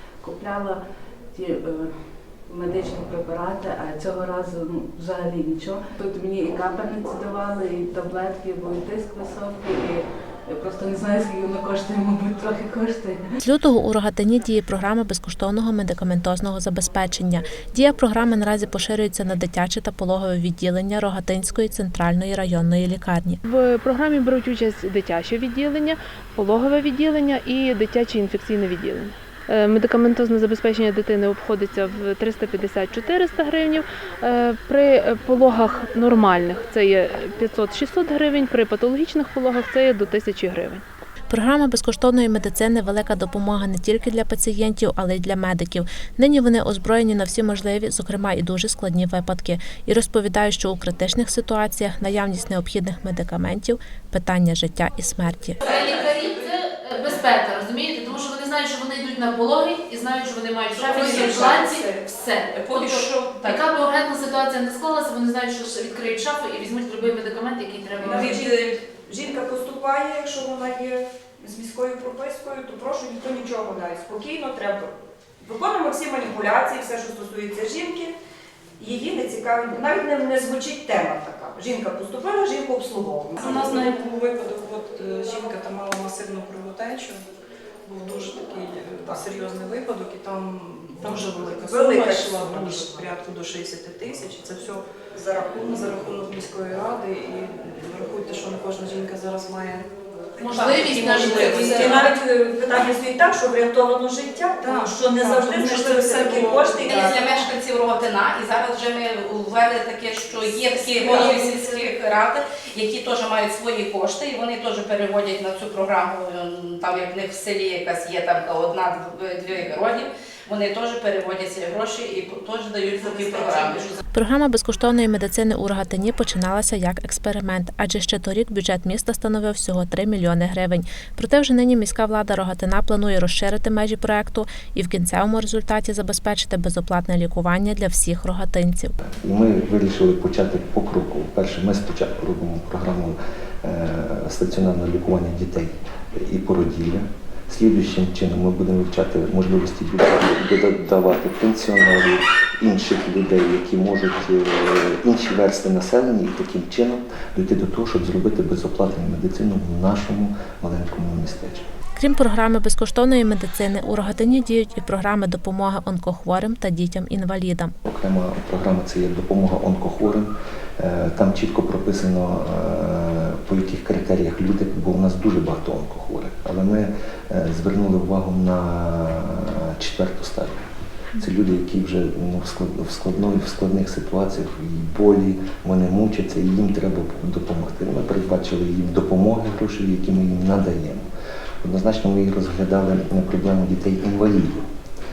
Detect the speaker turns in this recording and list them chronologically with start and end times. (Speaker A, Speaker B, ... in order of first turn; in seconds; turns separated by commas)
Speaker A: 0.2-0.8, Speaker A: 1.3-1.9, Speaker A: 2.5-13.2, Speaker B: 13.4-23.4, Speaker C: 23.4-40.8, Speaker B: 41.3-55.6, Speaker D: 55.6-68.4, Speaker E: 55.6-56.2, Speaker E: 60.8-61.9, Speaker F: 60.9-61.9, Speaker E: 62.5-63.6, Speaker F: 68.0-78.2, Speaker F: 78.8-83.9, Speaker G: 83.4-87.2, Speaker G: 87.8-94.8, Speaker F: 91.0-93.1, Speaker F: 95.1-96.0, Speaker G: 95.6-99.9, Speaker D: 100.4-102.1, Speaker F: 100.4-107.2, Speaker E: 100.4-100.9, Speaker G: 100.8-102.1, Speaker G: 104.6-107.0, Speaker E: 106.8-124.0, Speaker D: 107.2-107.5, Speaker D: 110.7-111.8, Speaker F: 110.9-111.4, Speaker F: 123.0-124.0, Speaker B: 124.1-138.9, Speaker H: 139.0-161.6, Speaker B: 161.9-167.7, Speaker H: 167.8-180.6, Speaker H: 181.2-191.1, Speaker H: 191.6-194.6